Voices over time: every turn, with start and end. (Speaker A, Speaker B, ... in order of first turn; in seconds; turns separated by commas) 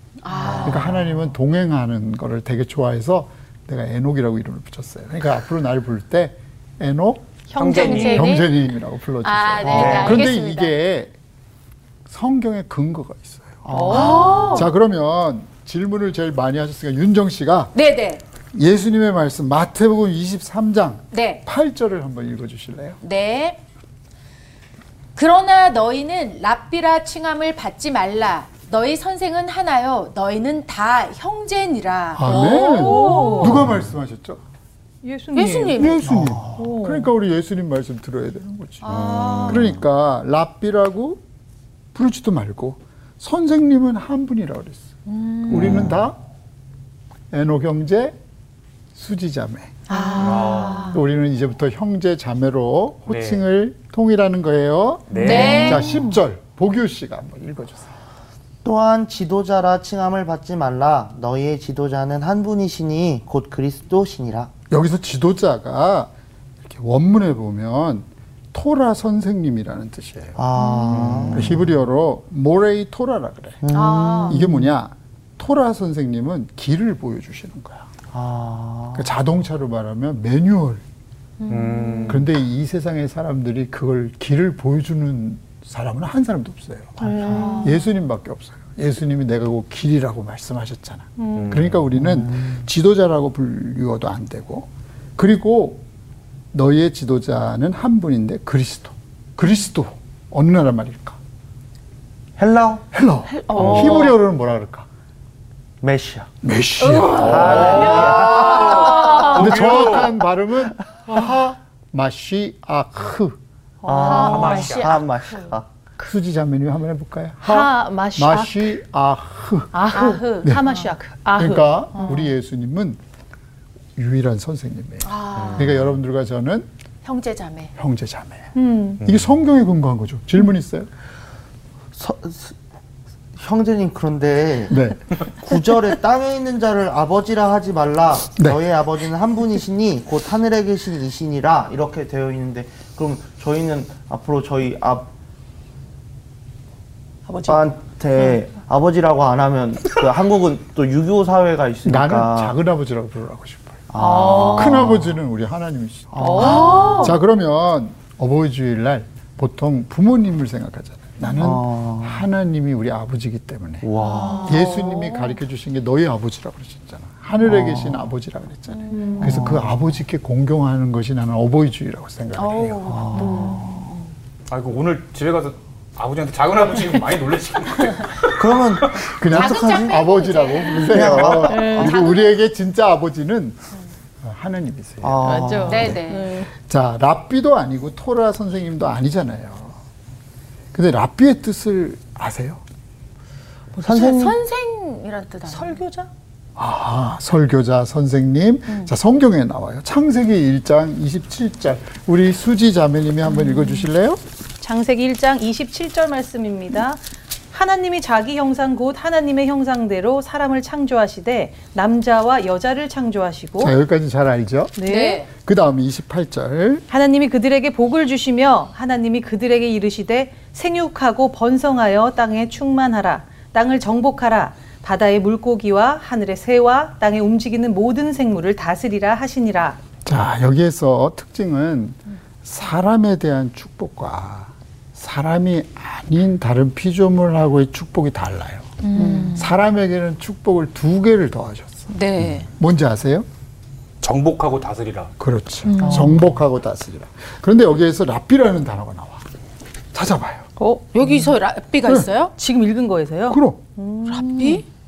Speaker A: 0.2-0.9, Speaker B: 0.3-1.2, Speaker C: 0.6-7.4, Speaker D: 7.5-8.3, Speaker E: 7.5-8.2, Speaker A: 7.7-8.5, Speaker C: 7.9-11.1, Speaker A: 9.2-10.8, Speaker E: 9.7-10.3, Speaker C: 12.1-13.6, Speaker B: 13.6-14.6, Speaker D: 13.7-14.7, Speaker A: 13.9-14.7, Speaker C: 14.5-17.7, Speaker A: 17.7-18.2, Speaker C: 18.5-23.0, Speaker A: 21.1-21.4, Speaker A: 23.0-23.6, Speaker A: 25.1-33.7, Speaker C: 32.1-34.4, Speaker D: 32.3-33.7, Speaker D: 35.0-36.0, Speaker A: 35.3-36.1, Speaker C: 35.8-38.9, Speaker B: 36.0-36.7, Speaker D: 36.5-37.1, Speaker A: 38.8-39.7, Speaker E: 38.9-39.8, Speaker C: 39.5-41.2, Speaker C: 41.9-44.9, Speaker A: 45.1-45.9, Speaker E: 45.5-46.1, Speaker C: 45.5-46.2, Speaker C: 47.3-48.2, Speaker C: 49.0-49.8, Speaker A: 49.9-51.0, Speaker D: 49.9-51.0, Speaker E: 50.2-50.9, Speaker C: 50.9-57.9, Speaker E: 53.1-53.4, Speaker E: 55.1-55.8, Speaker A: 55.2-56.1, Speaker D: 55.2-55.9, Speaker B: 58.6-64.5, Speaker C: 64.7-66.1, Speaker C: 66.6-70.4, Speaker B: 70.4-71.7, Speaker A: 70.6-71.1, Speaker E: 70.9-71.6, Speaker C: 71.3-73.6, Speaker B: 73.6-74.7, Speaker A: 73.7-74.4, Speaker C: 74.2-77.9, Speaker B: 78.1-79.1, Speaker C: 79.0-80.8, Speaker A: 81.4-82.2, Speaker E: 81.5-82.3, Speaker C: 82.1-95.8, Speaker B: 87.0-87.5, Speaker D: 87.0-87.9, Speaker A: 87.4-87.8, Speaker E: 91.3-91.9, Speaker B: 92.0-92.6, Speaker C: 96.5-101.2, Speaker B: 102.4-102.9, Speaker C: 102.9-104.9, Speaker A: 103.3-104.2, Speaker E: 103.6-104.0, Speaker B: 105.8-106.3, Speaker C: 106.4-107.9, Speaker A: 106.9-109.4, Speaker E: 107.1-110.2, Speaker B: 107.1-109.2, Speaker D: 107.7-109.3, Speaker C: 109.3-113.4, Speaker D: 113.8-114.7, Speaker B: 113.8-115.7, Speaker A: 114.0-115.1, Speaker E: 114.2-115.0, Speaker C: 116.0-119.8, Speaker D: 117.4-118.7, Speaker D: 119.7-122.3, Speaker A: 119.9-120.8, Speaker C: 121.3-123.0, Speaker C: 124.0-126.7, Speaker A: 125.0-125.8, Speaker E: 125.4-125.8, Speaker A: 127.0-127.7, Speaker C: 127.8-128.5, Speaker D: 128.6-129.0, Speaker C: 129.0-130.9, Speaker B: 131.9-132.6, Speaker B: 133.3-145.1, Speaker C: 134.7-135.0, Speaker C: 138.4-138.6, Speaker D: 147.3-147.7, Speaker B: 147.4-152.6, Speaker C: 151.8-153.8, Speaker B: 153.9-155.2, Speaker D: 154.0-154.9, Speaker C: 154.5-163.9, Speaker B: 156.1-157.2, Speaker D: 156.2-157.2, Speaker A: 156.6-156.9, Speaker B: 161.4-162.2, Speaker B: 163.8-164.5, Speaker D: 164.0-164.8, Speaker A: 164.1-165.3, Speaker C: 164.4-173.0, Speaker B: 167.4-168.0, Speaker D: 168.9-169.6, Speaker B: 169.2-169.8, Speaker A: 172.4-173.7, Speaker B: 172.8-173.9, Speaker D: 173.1-173.9, Speaker E: 174.5-179.1, Speaker B: 178.3-180.0, Speaker C: 179.1-183.7, Speaker A: 179.3-182.4, Speaker B: 180.9-182.0, Speaker D: 181.5-181.9, Speaker C: 184.2-189.8, Speaker B: 185.0-186.0, Speaker D: 185.2-186.5, Speaker A: 185.7-186.5, Speaker C: 190.7-192.6, Speaker B: 193.8-194.4, Speaker A: 193.9-195.8, Speaker D: 195.5-196.1, Speaker C: 196.6-204.2, Speaker D: 203.5-203.7, Speaker D: 204.6-213.8, Speaker C: 213.6-214.8, Speaker D: 214.8-215.2, Speaker A: 214.8-215.3, Speaker C: 215.3-216.8, Speaker D: 216.9-229.8, Speaker C: 230.1-238.8, Speaker A: 238.8-239.5, Speaker B: 239.0-239.4, Speaker C: 239.3-241.9, Speaker A: 241.9-242.5, Speaker C: 242.5-243.3, Speaker E: 244.0-245.1, Speaker C: 245.2-249.3, Speaker A: 245.7-246.2, Speaker B: 245.8-246.3, Speaker C: 249.9-250.5, Speaker D: 250.6-251.3, Speaker A: 250.9-252.3, Speaker D: 252.3-254.7, Speaker C: 253.3-253.6, Speaker A: 254.1-254.7